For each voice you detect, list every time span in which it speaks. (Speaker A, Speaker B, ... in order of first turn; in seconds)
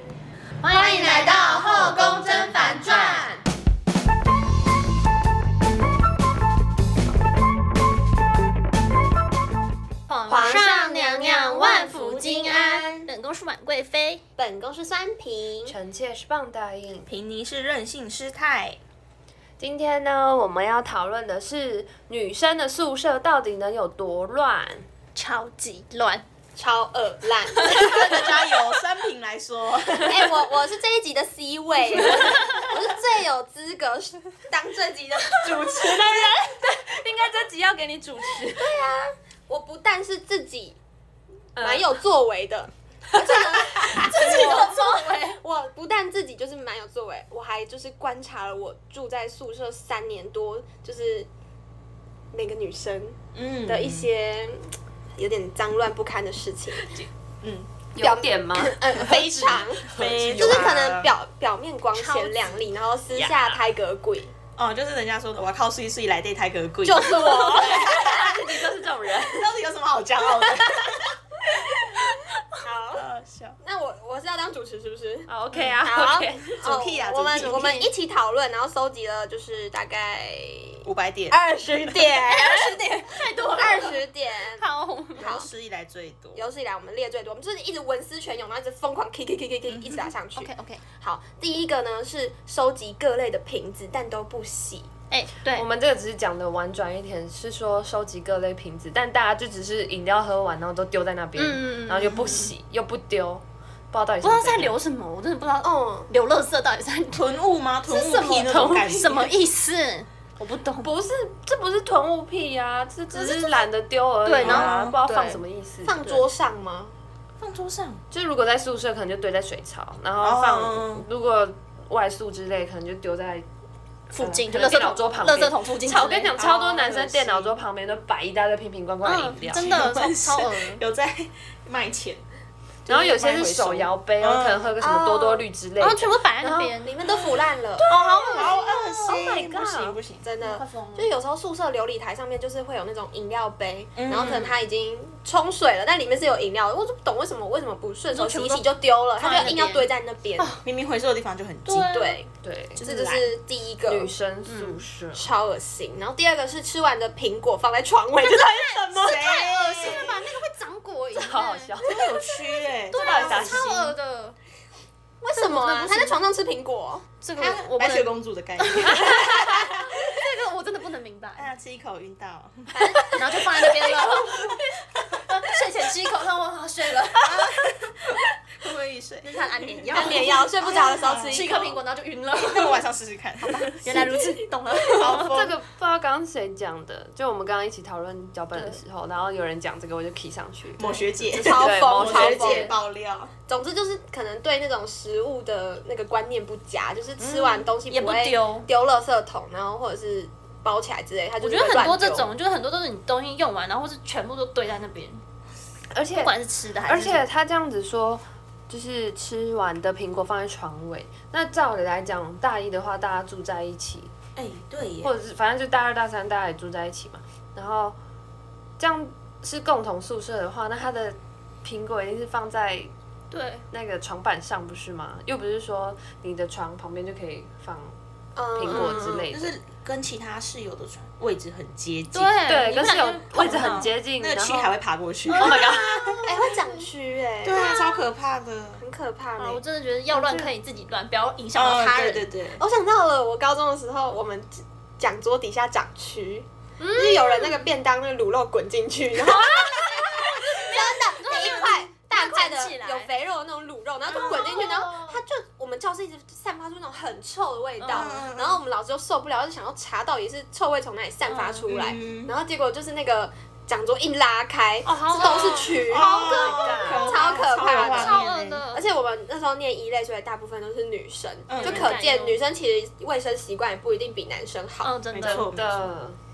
Speaker A: 0.6-3.3, 10.1-14.2, 25.1-26.2, 43.1-45.4, 61.9-62.7, 77.4-77.9, 82.2-84.0, 84.5-85.5, 90.4-90.8, 95.1-95.7, 101.4-102.5, 104.2-107.3, 107.8-110.9, 113.1-113.7, 114.2-115.4, 124.1-126.4, 129.0-130.8, 135.8-136.9, 137.8-138.9, 140.4-141.1, 148.1-150.6, 151.7-152.2, 154.5-154.8, 158.2-161.8, 162.9-164.4, 165.3-166.2, 167.2-171.5, 173.0-174.6, 175.1-177.5, 179.2-182.8, 183.4-185.3, 188.5-188.8, 190.8-191.1, 192.0-192.8, 197.9-198.7, 201.4-205.2, 206.2-207.2, 223.3-223.7, 232.1-233.9, 235.3-236.8, 237.5-238.0, 239.4-242.2, 246.8-247.6, 250.1-253.1, 254.2-255.2, 257.8-258.1, 261.2-261.7, 264.8-266.8, 267.7-268.9, 271.6-272.4, 274.8-275.5
Speaker B: 0.7-3.4, 10.3-13.1, 14.4-15.8, 26.6-28.4, 30.0-36.1, 38.5-40.8, 41.6-51.3, 52.3-56.9, 58.0-64.3, 66.8-68.3, 72.6-73.0, 73.6-75.3, 75.8-82.8, 83.5-84.6, 86.3-94.9, 105.6-106.1, 115.8-116.9, 134.8-135.4, 136.8-137.9, 140.2-150.6, 151.7-154.1, 155.1-159.3, 165.2-167.1, 169.1-169.7, 172.7-173.2, 179.9-181.8, 191.4-192.8, 193.5-202.3, 228.3-229.3, 236.2-237.8, 238.8-239.6, 242.6-266.1, 266.9-268.2, 268.7-274.9
Speaker C: 15.7-17.1, 19.6-24.8, 35.4-38.7, 41.5-41.9, 43.1-44.5, 57.9-60.8, 67.2-69.5, 75.3-76.7, 95.5-104.8, 110.8-116.0, 118.1-123.5, 124.2-129.8, 132.9-136.8, 137.9-140.0, 152.4-153.2, 153.8-155.2, 161.1-162.1, 162.9-163.9, 168.9-169.5, 185.0-192.3, 205.9-206.3, 206.9-214.1, 215.0-218.0, 218.8-222.9, 223.7-227.9, 228.5-229.5, 232.4-234.7, 235.3-236.2, 240.1-240.5, 249.3-250.1, 265.1-267.2, 275.2-276.2
Speaker D: 17.1-18.8, 27.7-30.2, 53.3-54.1, 56.9-57.7, 59.1-61.1, 64.6-68.5, 69.3-71.2, 72.9-73.6, 76.6-77.6, 80.8-81.4, 85.2-86.5, 89.7-90.1, 107.1-109.3, 114.4-115.0, 117.4-118.0, 120.2-121.0, 126.4-127.6, 129.6-132.2, 132.8-134.7, 137.1-140.2, 143.9-144.6, 150.6-152.0, 159.0-160.2, 161.8-163.7, 167.4-169.3, 171.4-173.2, 173.8-174.1, 177.2-181.7, 182.3-184.1, 184.9-185.5, 190.8-193.3, 197.2-197.5, 214.3-215.1, 229.0-232.4, 233.4-235.8, 237.4-238.8, 241.5-242.6, 254.1-254.6, 257.9-258.6, 261.7-262.3, 265.2-268.6, 271.5-271.9, 275.1-275.9